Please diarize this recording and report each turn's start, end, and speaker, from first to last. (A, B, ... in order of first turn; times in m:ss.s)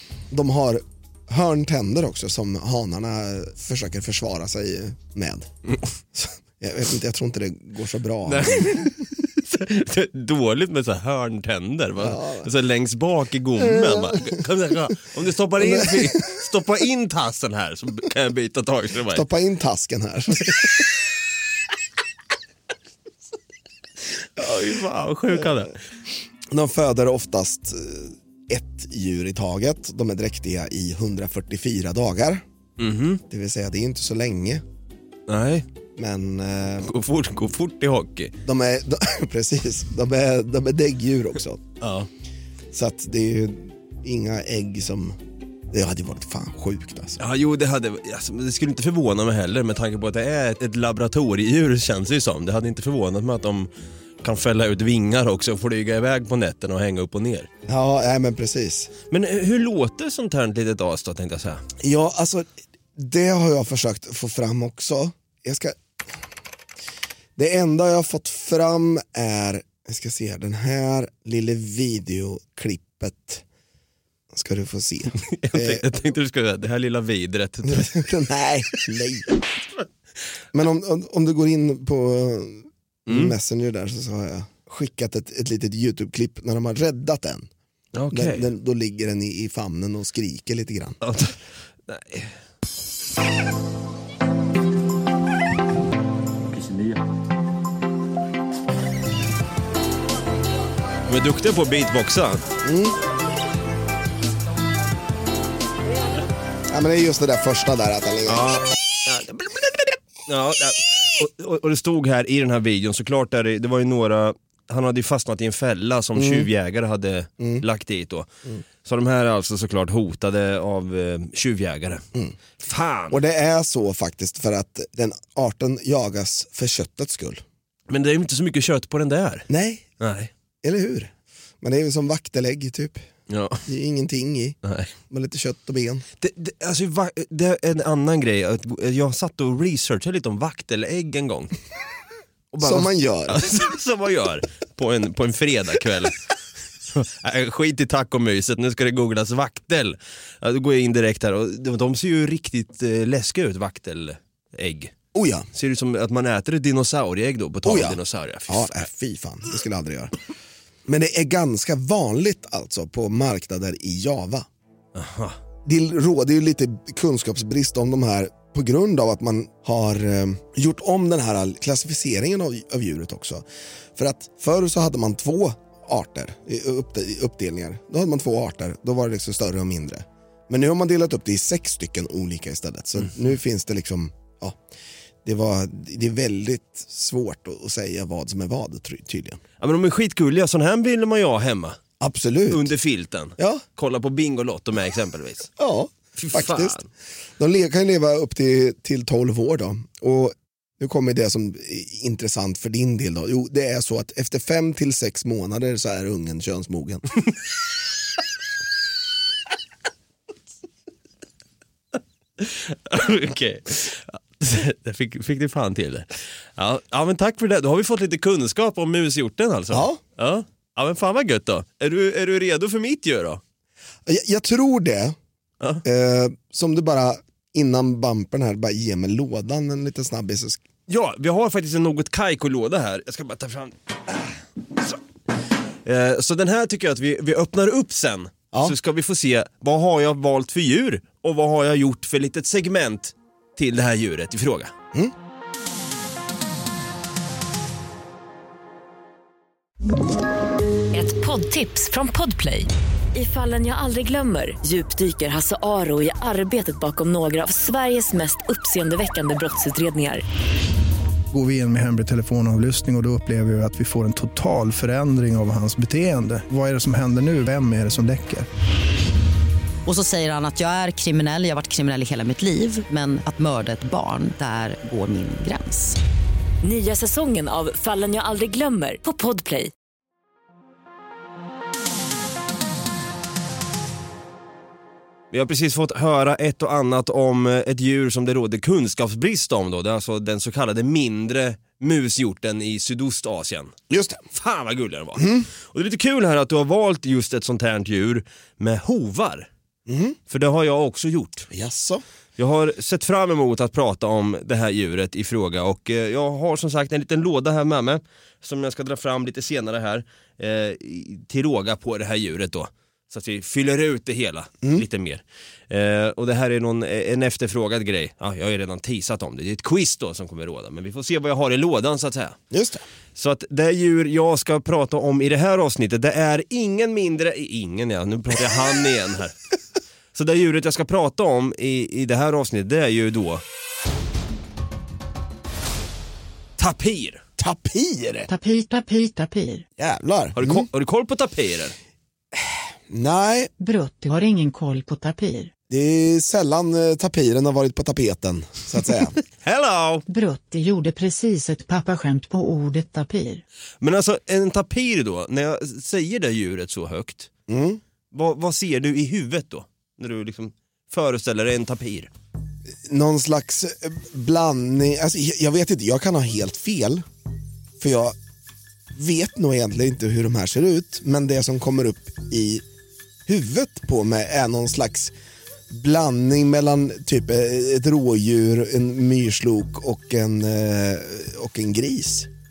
0:00.3-0:05.5 A
0:06.1-0:08.9 A
0:08.2-0:19.2 B
0:12.0-0:12.5 A
0:13.6-0:14.4 A
0:15.6-0:16.3 A
0:19.1-0:20.9 A
0:24.4-0:25.8 B
0:26.5-0:32.4 A
0:32.8-0:33.2 B
0:33.3-0:34.6 A
0:35.3-0:35.6 B
0:36.0-0:36.9 A
0:36.8-0:38.3 B
0:38.4-0:41.6 A
0:41.8-0:42.1 B
0:42.7-0:45.2 A
0:45.7-0:47.2 A
0:47.2-0:53.7 B
0:54.2-0:57.5 B
0:57.7-0:58.9 A
0:59.1-1:01.6 B
1:01.8-1:05.8 A
1:07.4-1:13.4 A
1:14.3-1:15.8 A
1:15.2-1:18.1 B
1:17.6-1:19.3 A
1:20.5-1:27.5 A
1:23.1-1:23.3 B
1:27.9-1:28.5 B
1:28.1-1:31.0 A
1:31.0-1:31.4 B
1:31.9-1:32.3 B
1:41.0-1:42.4 B
1:42.6-1:43.0 A
1:46.7-1:48.6 A
1:48.3-1:58.3 B
1:56.1-1:56.5 A
1:57.4-1:57.6 A
1:58.8-2:02.0 B
2:02.6-2:03.2 B
2:03.1-2:07.4 A
2:07.9-2:09.4 B
2:09.5-2:09.9 A
2:10.0-2:10.3 B
2:10.6-2:13.0 A
2:13.3-2:13.6 B
2:13.6-2:16.0 A
2:14.6-2:14.9 B
2:16.2-2:21.5 B
2:22.5-2:26.2 B
2:22.6-2:23.5 A
2:26.9-2:34.9 B
2:35.1-2:35.5 A
2:35.5-2:38.9 B
2:37.6-2:40.2 A
2:40.8-2:44.5 A
2:44.9-2:45.4 B
2:45.6-2:53.4 A
2:54.0-3:04.6 A
3:05.2-3:09.4 A
3:09.6-3:11.8 B
3:12.0-3:12.7 A
3:12.5-3:15.5 B
3:13.4-3:13.6 A
3:15.6-3:16.8 A
3:16.2-3:16.9 B
3:17.4-3:27.0 A
3:32.4-3:43.4 B
3:39.7-3:40.0 A
3:44.0-3:45.2 A
3:45.8-3:50.6 A
3:50.9-3:55.0 B
3:55.8-4:04.7 B
4:10.9-4:20.2 C
4:21.3-4:28.5 D
4:29.8-4:36.0 E
4:36.6-4:39.7 C
4:45.3-4:53.7 B
4:53.9-4:54.2 A
4:54.3-4:59.5 B
4:55.2-4:55.5 A
4:59.9-5:00.2 A
5:00.3-5:01.5 B
5:01.5-5:02.0 A
5:02.4-5:22.4 B
5:22.5-5:22.8 A
5:23.2-5:29.3 B
5:30.1-5:33.4 B
5:36.6-5:37.2 B
5:37.4-5:38.3 A
5:38.3-5:39.6 F
5:39.8-5:40.7 A
5:40.4-5:41.7 B
5:42.3-5:43.5 A
5:43.6-5:45.5 F
5:45.7-5:49.2 A
5:49.4-5:50.0 B
5:50.1-5:53.4 F
5:53.8-5:57.3 B
5:57.5-5:57.8 A
5:58.1-6:02.1 B
6:02.9-6:07.0 A
6:07.8-6:08.2 A
6:08.9-6:12.6 A
6:13.3-6:15.1 A
6:15.7-6:22.3 A